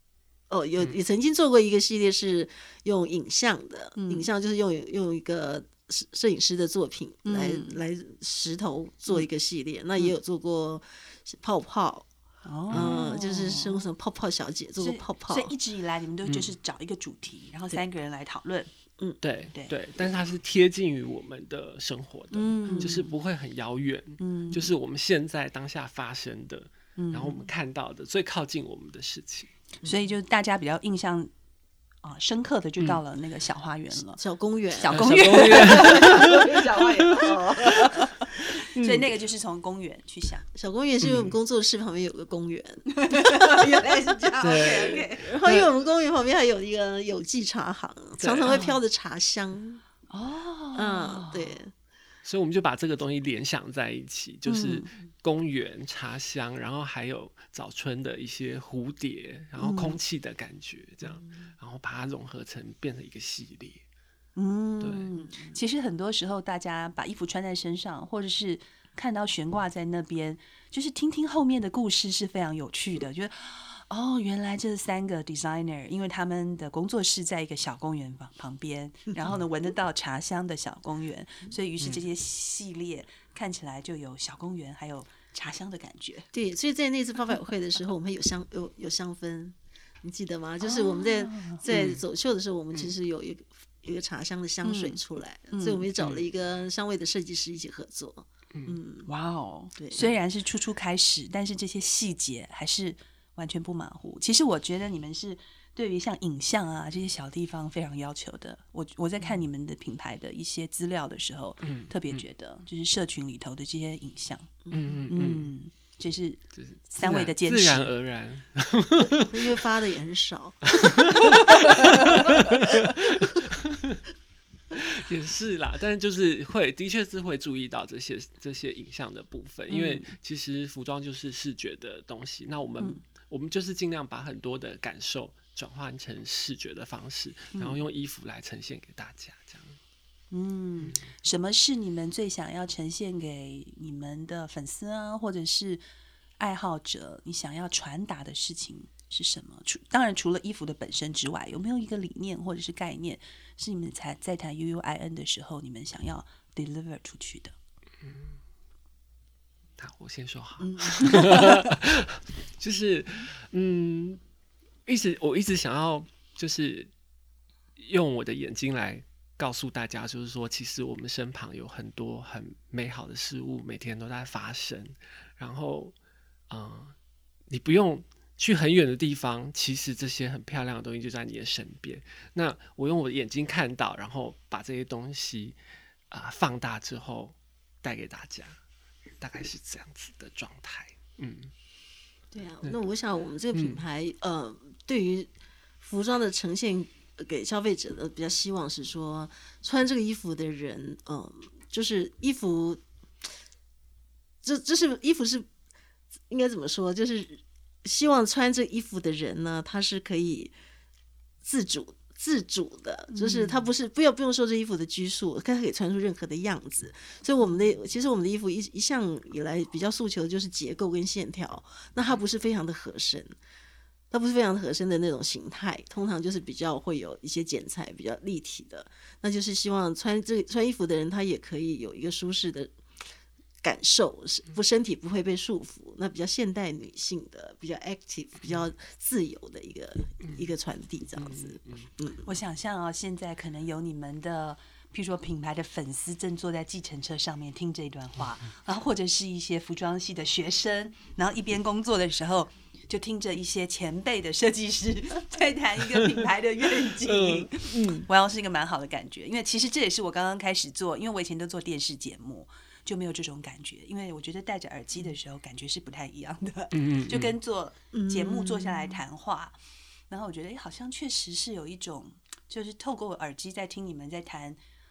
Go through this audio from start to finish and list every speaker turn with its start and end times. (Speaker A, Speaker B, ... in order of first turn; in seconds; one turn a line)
Speaker A: 0.5-12.1
Speaker B: 4.0-4.3
Speaker B: 7.2-7.8
Speaker B: 12.4-13.9
Speaker C: 12.7-13.0
Speaker A: 12.7-15.5
Speaker B: 14.8-18.7
Speaker C: 16.2-16.6
Speaker C: 19.2-29.5
Speaker B: 22.3-23.1
Speaker A: 22.7-23.1
Speaker B: 24.2-24.7
Speaker B: 27.0-27.4
Speaker B: 29.8-31.3
Speaker B: 32.0-34.2
Speaker A: 33.9-36.1
Speaker B: 34.7-40.4
Speaker C: 34.9-37.6
Speaker C: 38.8-39.0
Speaker A: 40.5-43.5
Speaker C: 41.0-41.4
Speaker B: 42.9-45.3
Speaker C: 44.4-45.7
Speaker A: 44.6-49.8
Speaker C: 48.2-48.6
Speaker B: 48.5-48.8
Speaker B: 50.1-51.6
Speaker A: 50.7-51.7
Speaker C: 52.2-63.8
Speaker B: 54.5-54.9
Speaker B: 59.6-60.0
Speaker B: 64.3-86.3
Speaker C: 64.8-65.1
Speaker A: 86.3-99.1
Speaker B: 90.6-91.6
Speaker C: 91.7-92.0
Speaker B: 94.6-95.0
Speaker B: 95.5-95.9
Speaker C: 96.0-96.2
Speaker B: 99.0-114.5
Speaker A: 99.8-100.1
Speaker C: 111.6-112.2
Speaker C: 114.7-115.5
Speaker B: 115.1-117.9
Speaker C: 116.5-119.5
Speaker A: 119.2-121.3
Speaker C: 120.8-124.0
Speaker C: 124.7-139.8
Speaker B: 129.7-130.1
Speaker B: 137.5-137.8
Speaker B: 140.3-145.8
Speaker B: 146.4-157.5
Speaker C: 158.0-158.3
Speaker C: 159.8-164.2
Speaker B: 160.6-161.7
Speaker C: 164.8-166.9
Speaker C: 167.8-175.9
Speaker C: 176.5-176.9
Speaker C: 177.5-185.6
Speaker C: 186.1-188.6
Speaker C: 189.2-191.5
Speaker A: 192.3-195.3
Speaker C: 193.5-193.8
Speaker A: 195.8-203.2
Speaker A: 204.4-205.5
Speaker A: 206.3-210.5
Speaker A: 211.4-223.3
Speaker B: 213.1-213.7
Speaker A: 224.1-232.7
Speaker A: 233.6-242.2
Speaker C: 241.2-241.9
Speaker B: 242.2-269.6
Speaker C: 257.0-258.1
Speaker C: 266.7-267.3
Speaker A: 267.9-269.0
Speaker B: 270.1-274.6